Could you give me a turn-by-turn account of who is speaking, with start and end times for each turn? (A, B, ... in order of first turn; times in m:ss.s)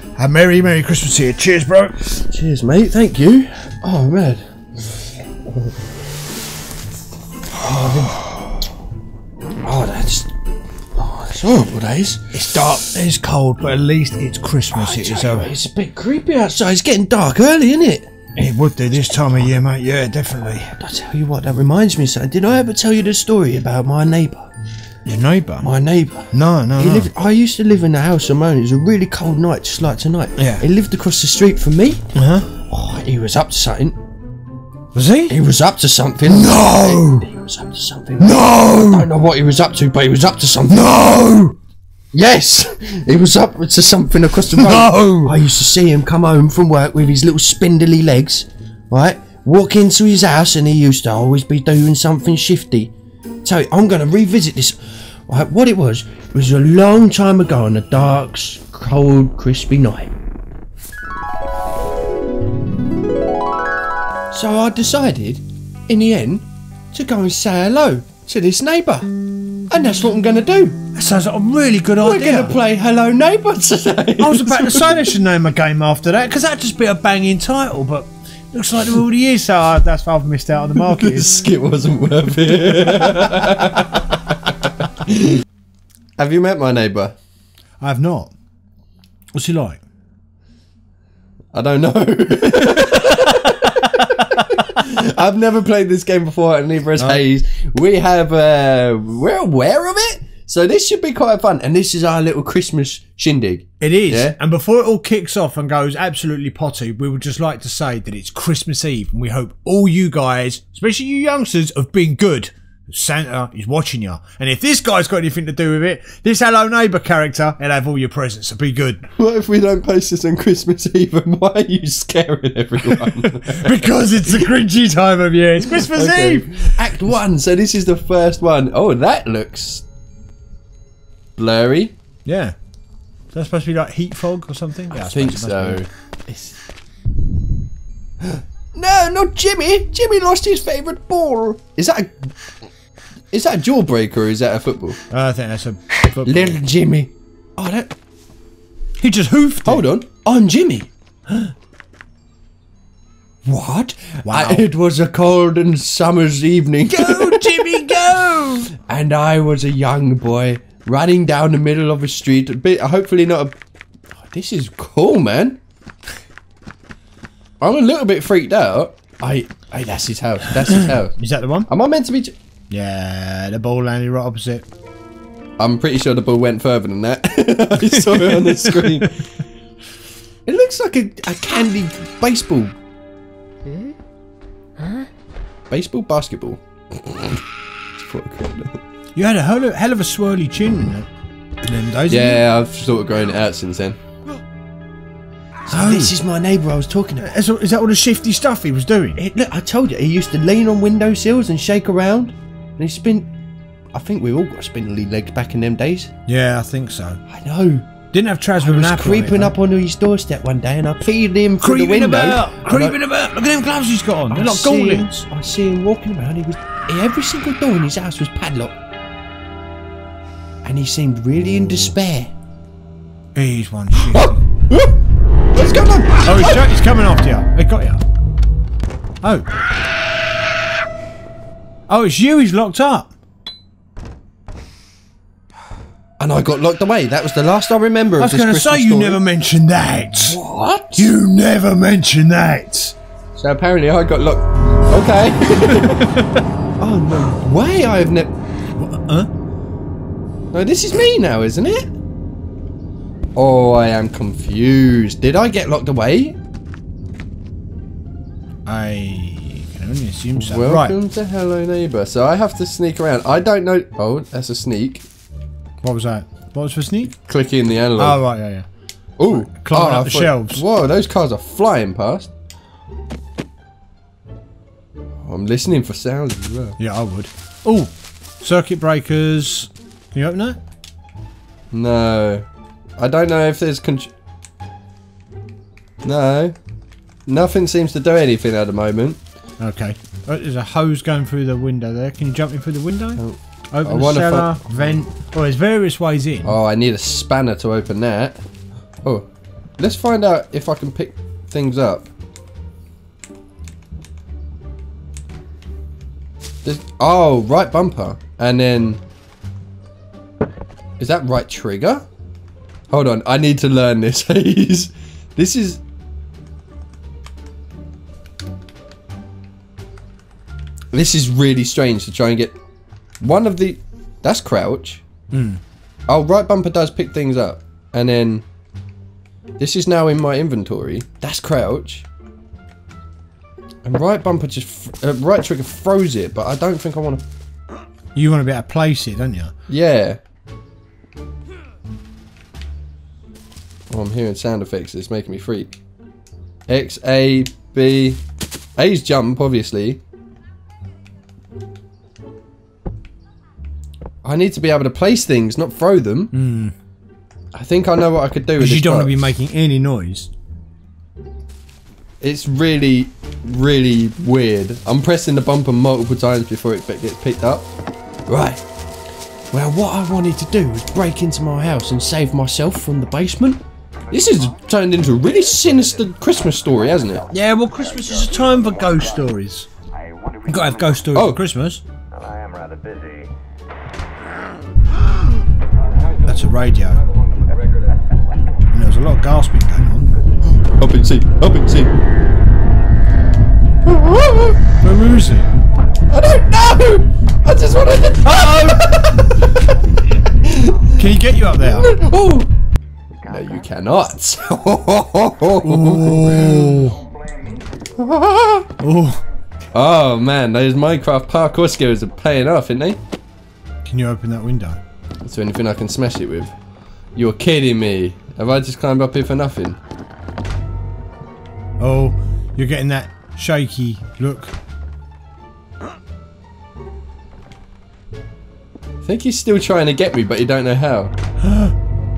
0:00.2-0:02.1 A
0:02.1-0:04.4 B
0:05.4-0:05.7 B
0:07.5-0:08.6 B
0:09.6-0:10.3 B
0:11.0-0:12.8 B
0:12.3-0:15.5 A
0:14.7-0:18.1 B
0:18.4-0:20.8 A
0:20.8-0:24.5 B
0:25.0-0:25.7 A
0:25.6-0:32.0 B
0:26.3-0:27.1 A
0:30.4-0:30.6 A
0:32.1-0:32.6 A
0:32.5-0:34.0 B
0:34.9-0:35.3 A
0:35.3-0:41.5 B
0:36.3-0:37.3 A
0:38.2-0:39.1 A
0:40.7-0:41.5 A
0:42.1-0:52.9 B
0:44.5-0:45.3 A
0:53.4-1:00.1 B
1:04.3-1:09.1 B
1:09.7-1:10.8 B
1:10.9-1:12.6 A
1:12.0-1:15.1 B
1:14.2-1:21.4 A
1:20.8-1:25.4 B
1:22.9-1:23.6 A
1:26.2-1:27.2 B
1:27.8-1:28.3 A
1:29.3-1:29.8 A
1:31.5-1:44.4 B
1:32.8-1:34.6 A
1:37.0-1:37.2 A
1:43.8-1:59.0 A
1:59.2-2:04.5 B
2:02.8-2:07.0 A
2:05.7-2:09.8 B
2:11.4-2:11.9 B
2:12.2-2:12.5 A
2:13.3-2:15.8 A
2:14.9-2:16.5 B
2:18.3-2:22.3 B
2:23.3-2:25.0 B
2:25.1-2:26.6 A
2:26.1-2:27.9 B
2:29.0-2:29.8 A
2:29.6-2:30.9 B
2:33.4-2:38.0 B
2:34.2-2:34.6 A
2:36.9-2:38.8 A
2:38.7-2:43.6 B
2:44.2-2:45.6 B
2:47.6-2:51.1 B
2:51.2-2:51.7 A
2:51.7-2:52.3 B
2:52.7-2:54.6 A
2:55.6-2:59.2 B
2:58.0-2:59.0 A
3:00.4-3:02.7 B
3:05.7-3:07.4 B
3:07.9-3:08.8 B
3:09.2-3:11.1 A
3:11.6-3:12.4 A
3:12.1-3:14.0 B
3:15.7-3:17.3 B
3:15.7-3:16.1 A
3:17.2-3:19.2 A
3:19.2-3:23.3 B
3:23.9-3:26.1 B
3:26.3-3:27.2 A
3:27.3-3:27.9 B
3:28.1-3:29.5 A
3:28.6-3:33.0 B
3:31.6-3:35.3 A
3:34.3-3:38.8 B
3:40.6-3:42.3 B
3:43.4-3:44.4 A
3:44.0-3:45.0 B
3:45.5-3:46.7 B
3:46.2-3:48.0 A
3:49.2-3:49.5 A
3:51.9-3:53.1 A
3:56.2-3:59.2 B
3:58.2-4:00.4 A
4:00.3-4:01.1 B
4:01.0-4:02.9 A
4:03.4-4:06.2 B
4:05.7-4:06.4 A
4:06.8-4:08.3 B
4:08.8-4:09.3 A
4:10.5-4:11.9 B
4:13.4-4:16.4 B
4:18.6-4:21.0 A
4:20.4-4:25.0 B
4:25.8-4:27.1 A
4:27.2-4:28.2 B
4:28.0-4:28.6 A
4:29.2-4:32.3 B
4:29.3-4:30.6 A
4:35.2-4:36.8 B
4:36.8-4:40.6 A
4:41.7-4:42.4 B
4:43.0-4:44.1 B
4:46.0-4:46.6 B
4:47.3-4:49.2 B
4:49.6-4:56.5 A
4:53.2-4:55.0 B
4:56.4-4:58.4 B
4:59.8-5:02.1 B
5:06.6-5:09.0 B
5:11.0-5:12.0 B
5:12.9-5:15.8 B
5:20.9-5:22.6 B
5:23.2-5:25.0 B
5:25.3-5:25.6 A
5:26.1-5:28.4 B
5:29.6-5:32.0 B
5:33.8-5:37.2 B
5:38.1-5:39.5 A
5:39.7-5:40.2 B
5:43.9-5:45.7 B
5:46.7-5:48.2 B
5:48.8-5:50.0 B
5:54.2-5:56.3 B
5:56.3-5:56.7 A
5:57.5-5:59.1 B
5:58.6-6:00.3 A
6:02.2-6:07.7 B
6:08.3-6:08.6 B
6:09.5-6:17.3 B
6:14.1-6:14.6 C
6:15.2-6:19.3 C
6:17.3-6:19.7 A
6:19.9-6:21.1 C
6:20.4-6:21.8 A
6:21.1-6:21.4 B
6:22.1-6:23.3 C
6:25.7-6:28.5 C
6:26.3-6:27.0 A
6:28.7-6:30.1 A
6:30.6-6:31.9 B
6:33.8-6:34.6 B
6:34.8-6:35.5 A
6:36.1-6:39.8 B
6:38.2-6:39.0 A
6:40.4-6:42.5 B
6:40.4-6:40.9 C
6:40.9-6:41.9 A
6:43.2-6:43.5 C
6:43.3-6:46.9 B
6:45.6-6:47.0 A
6:46.9-6:48.0 C
6:48.0-6:48.7 B
6:48.8-6:49.2 A
6:49.7-6:53.0 B
6:53.8-6:54.8 A
6:55.2-6:56.5 B
6:57.2-6:59.8 B
7:01.8-7:04.5 A
7:09.0-7:11.1 B
7:11.4-7:11.7 A